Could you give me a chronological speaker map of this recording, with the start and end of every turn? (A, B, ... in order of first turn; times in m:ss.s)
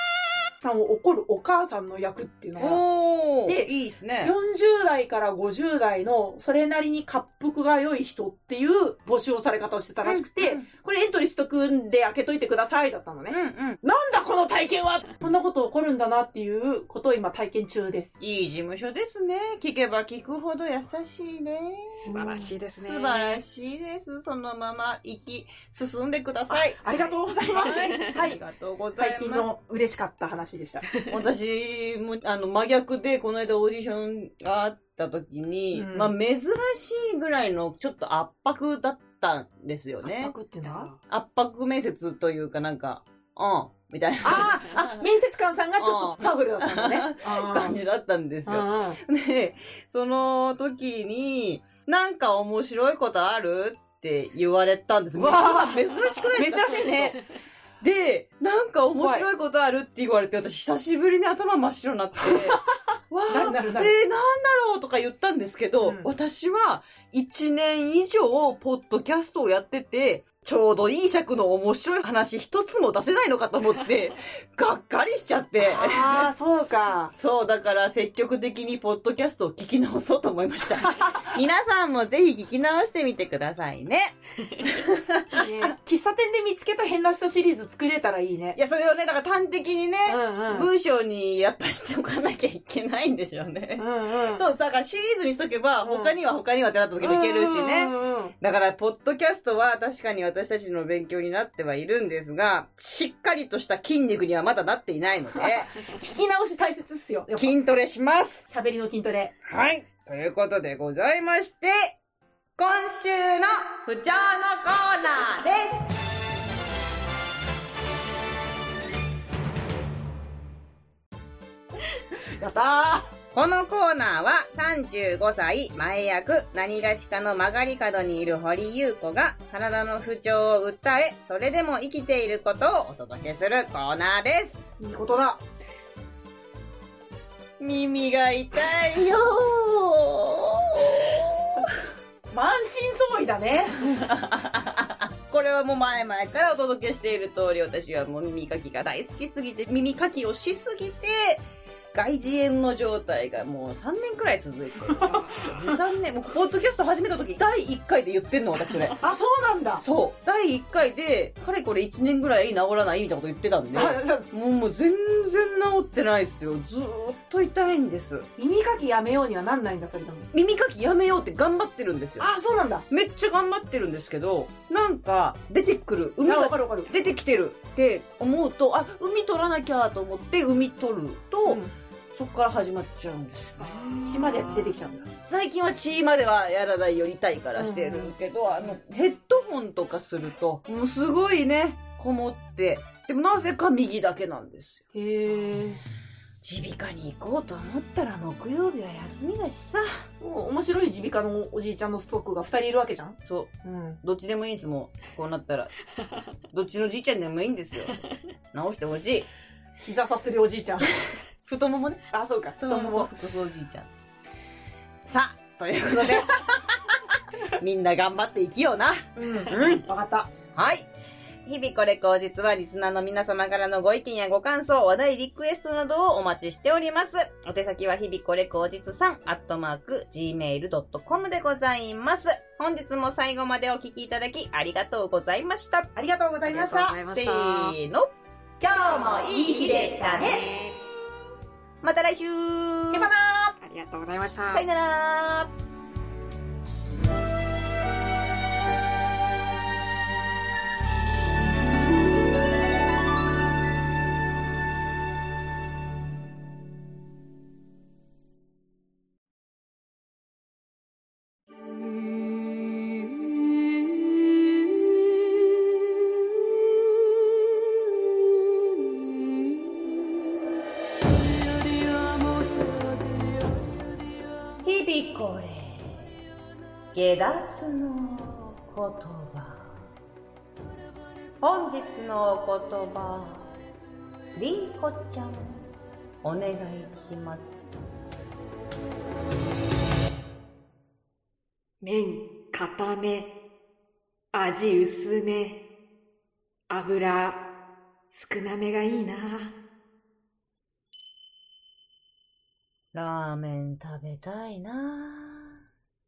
0:00.6-0:02.8 A
0:02.6-0:04.3 B
0:03.5-0:18.1 A
0:10.0-0:10.7 B
0:13.3-0:13.8 B
0:18.2-0:22.1 B
0:21.9-0:23.4 C
0:22.1-0:22.5 A
0:22.7-0:29.5 B
0:26.5-0:28.4 A
0:27.6-0:28.2 C
0:29.0-0:30.9 A
0:31.1-0:40.4 B
0:35.7-0:36.2 A
0:40.0-0:40.9 A
0:40.6-0:41.0 C
0:41.0-0:45.0 B
0:44.2-0:47.8 A
0:45.8-0:57.2 B
0:48.5-0:49.0 A
0:55.2-0:57.2 A
0:57.8-1:16.3 B
0:59.0-0:59.3 A
1:02.2-1:02.6 A
1:03.3-1:04.0 A
1:05.8-1:06.1 A
1:15.6-1:17.1 A
1:17.1-1:25.5 B
1:20.8-1:21.4 A
1:25.3-1:28.6 A
1:28.6-1:45.9 B
1:30.1-1:30.7 A
1:33.8-1:34.4 A
1:35.8-1:36.2 A
1:37.0-1:38.3 A
1:45.8-1:47.6 A
1:47.4-1:48.5 B
1:48.5-1:49.3 A
1:49.4-1:52.0 B
1:52.6-1:55.9 B
2:02.4-2:03.1 A
2:03.3-2:14.6 B
2:14.8-2:15.4 A
2:17.6-2:21.7 B
2:22.3-2:23.8 A
2:23.8-2:39.0 B
2:34.9-2:35.8 A
2:35.0-2:35.5 C
2:38.6-2:39.0 C
2:39.0-2:39.8 A
2:39.8-2:48.3 B
2:43.7-2:44.3 A
2:48.4-2:50.3 A
2:50.3-2:52.3 B
2:52.2-2:52.9 A
2:52.9-3:01.6 B
2:56.2-2:56.9 A
3:01.5-3:01.7 A
3:02.2-3:04.3 B
3:03.6-3:04.7 C
3:04.0-3:05.1 A
3:05.2-3:14.8 B
3:07.6-3:08.1 A
3:14.9-3:15.8 A
3:16.4-3:20.0 B
3:20.2-3:24.0 A
3:23.2-3:25.7 B
3:26.5-3:28.0 B
3:28.5-3:29.3 B
3:29.8-3:30.9 A
3:31.4-3:32.1 B
3:32.1-3:33.1 A
3:32.6-3:33.9 B
3:35.0-3:36.8 B
3:37.6-3:39.9 B
3:39.2-3:40.3 A
3:40.5-3:40.9 B
3:41.4-3:55.9 B
3:56.0-3:56.9 A
3:56.5-3:58.1 B
3:56.5-3:57.8 C
3:58.6-4:00.4 A
3:58.7-4:00.5 B
4:00.0-4:00.8 C
4:01.8-4:03.1 B
4:02.9-4:03.6 A
4:03.6-4:04.7 C
4:04.5-4:05.5 B
4:34.6-4:36.1 B
4:36.9-4:39.8 B
4:41.4-4:43.5 B
4:44.4-4:45.6 B
4:46.2-4:47.6 B
4:51.8-4:53.4 C
4:54.3-4:55.7 C
4:56.7-4:57.5 C
4:58.1-4:59.6 C
5:02.9-5:05.6 B